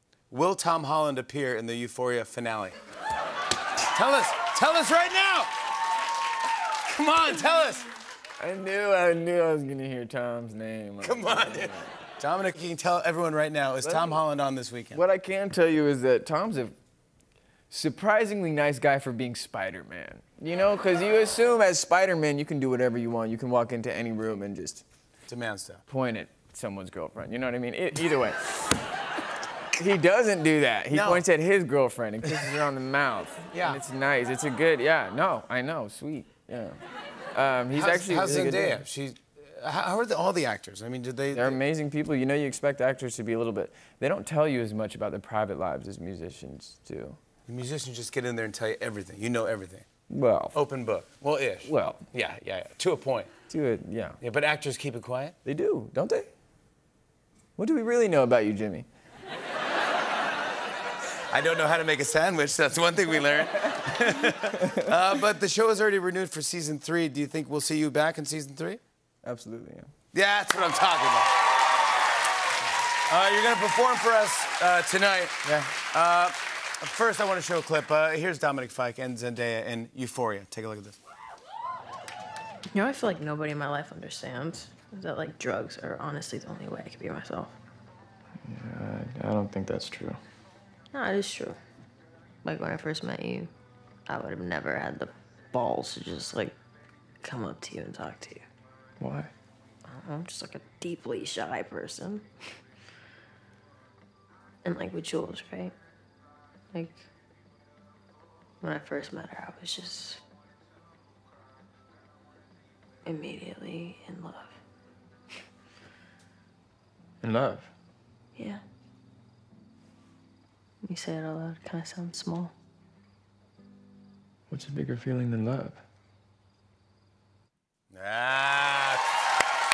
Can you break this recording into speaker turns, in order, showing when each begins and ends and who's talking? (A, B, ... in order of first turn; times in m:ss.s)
0:00.3-0:02.8 A
0:03.8-0:05.5 A
0:06.8-0:07.9 A
0:08.4-0:11.9 B
0:11.0-0:15.0 A
0:13.8-0:14.2 B
0:14.9-0:16.8 B
0:17.7-0:24.8 B
0:25.3-0:25.8 A
0:25.9-0:28.8 B
0:29.8-0:36.8 B
0:30.9-0:31.2 A
0:33.5-0:33.8 A
0:37.3-0:38.9 B
0:37.7-0:41.6 A
0:41.3-0:47.2 B
0:47.5-0:49.9 A
0:50.1-0:50.6 B
0:50.5-0:53.3 A
0:51.6-0:52.0 B
0:53.5-0:54.2 B
0:54.2-0:55.4 A
0:55.5-0:56.3 B
0:57.6-0:58.9 B
1:01.3-1:08.8 A
1:03.7-1:04.0 B
1:04.5-1:04.9 B
1:09.2-1:09.9 B
1:10.1-1:11.3 A
1:13.1-1:21.0 A
1:22.7-1:27.6 C
1:28.4-1:30.2 B
1:30.9-1:31.6 C
1:32.4-1:33.5 C
1:34.1-1:36.6 C
1:37.2-1:38.4 C
1:39.0-1:39.3 B
1:39.9-1:42.3 C
1:44.6-1:45.8 C
1:46.7-1:47.0 C
1:48.6-1:50.2 C
1:53.0-1:54.6 C
1:57.2-1:57.7 B
1:58.4-1:58.6 C
2:00.8-2:02.5 C
2:04.5-2:05.8 B
2:07.9-2:09.2 A